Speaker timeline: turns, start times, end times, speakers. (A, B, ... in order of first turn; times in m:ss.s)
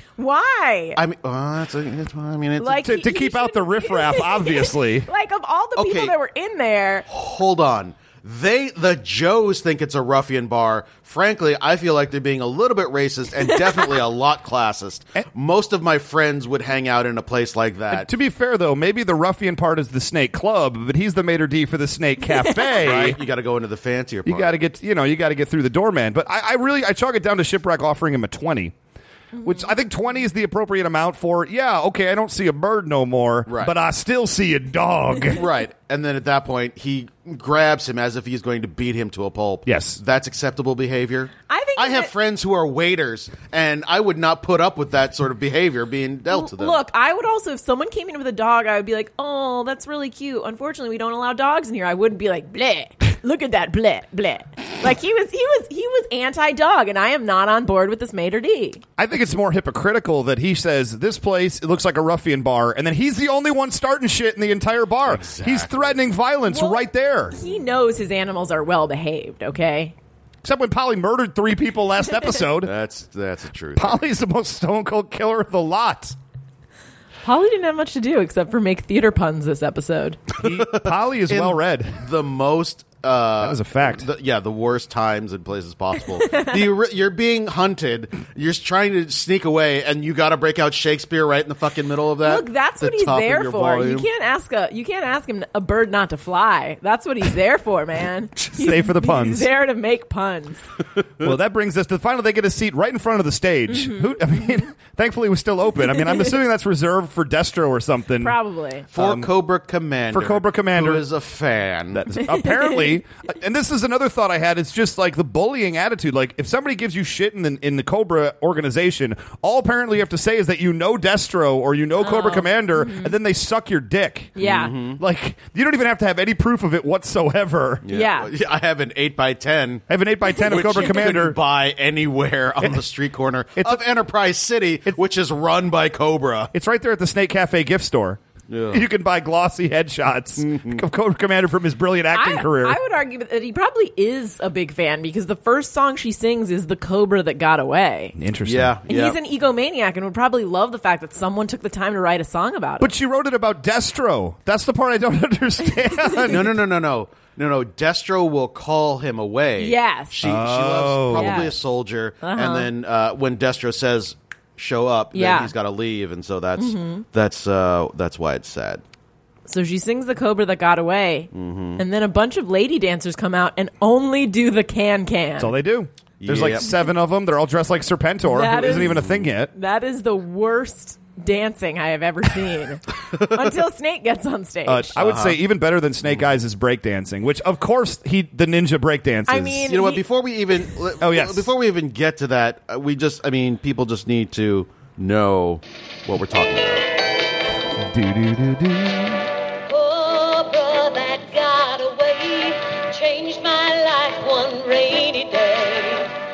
0:00.2-0:01.0 A
0:01.0-0:02.9 B
0:02.6-0:07.0 A
0:02.8-0:05.1 C
0:05.8-0:06.1 B
0:07.1-0:18.1 B
0:17.9-0:23.2 C
0:22.2-0:22.8 A
0:22.8-0:24.5 B
0:24.2-0:28.8 C
0:29.3-0:29.8 A
0:29.4-0:35.4 C
0:33.5-0:33.7 B
0:35.3-0:46.8 B
0:39.6-0:40.0 C
0:41.5-0:42.1 A
0:46.3-0:58.8 A
0:59.0-1:07.4 C
1:05.0-1:06.0 B
1:06.5-1:09.9 A
1:10.4-1:12.7 C
1:12.6-1:14.0 B
1:13.8-1:16.1 C
1:17.2-1:20.2 A
1:20.4-1:22.0 C
1:20.4-1:34.1 B
1:23.4-1:24.1 C
1:32.2-1:40.6 A
1:38.5-1:39.5 C
1:41.2-1:48.4 C
1:43.7-1:44.2 A
1:48.2-1:48.9 A
1:48.9-1:49.3 C
1:48.9-1:52.0 B
1:50.1-1:51.0 C
1:51.9-2:07.8 C
1:52.3-1:53.0 A
2:02.0-2:03.1 A
2:04.4-2:04.7 A
2:04.4-2:05.0 B
2:07.8-2:16.5 B
2:07.9-2:08.3 A
2:09.9-2:11.4 C
2:10.4-2:10.9 A
2:13.6-2:13.8 C
2:16.5-2:18.2 C
2:18.5-2:18.8 B
2:18.7-2:22.8 C
2:20.4-2:20.8 B
2:22.1-2:28.2 A
2:28.2-2:28.8 C
2:28.4-2:29.2 B
2:28.9-2:32.9 A
2:32.8-2:36.5 C
2:36.0-2:36.3 A
2:36.3-2:48.8 B
2:39.6-2:40.2 A
2:40.2-2:41.5 C
2:41.1-2:41.5 A
2:42.2-2:42.7 A
2:45.1-2:45.5 A
2:46.6-2:47.0 A
2:49.5-2:55.5 A
2:51.3-2:51.8 B
2:55.4-2:59.5 C
2:56.2-2:56.7 B
2:58.2-3:05.0 A
2:58.6-2:59.3 B
3:04.6-3:09.7 C
3:05.0-3:05.4 B
3:09.3-3:10.0 A
3:09.6-3:16.9 B
3:11.0-3:11.5 C
3:17.8-3:19.3 C
3:19.7-3:26.1 D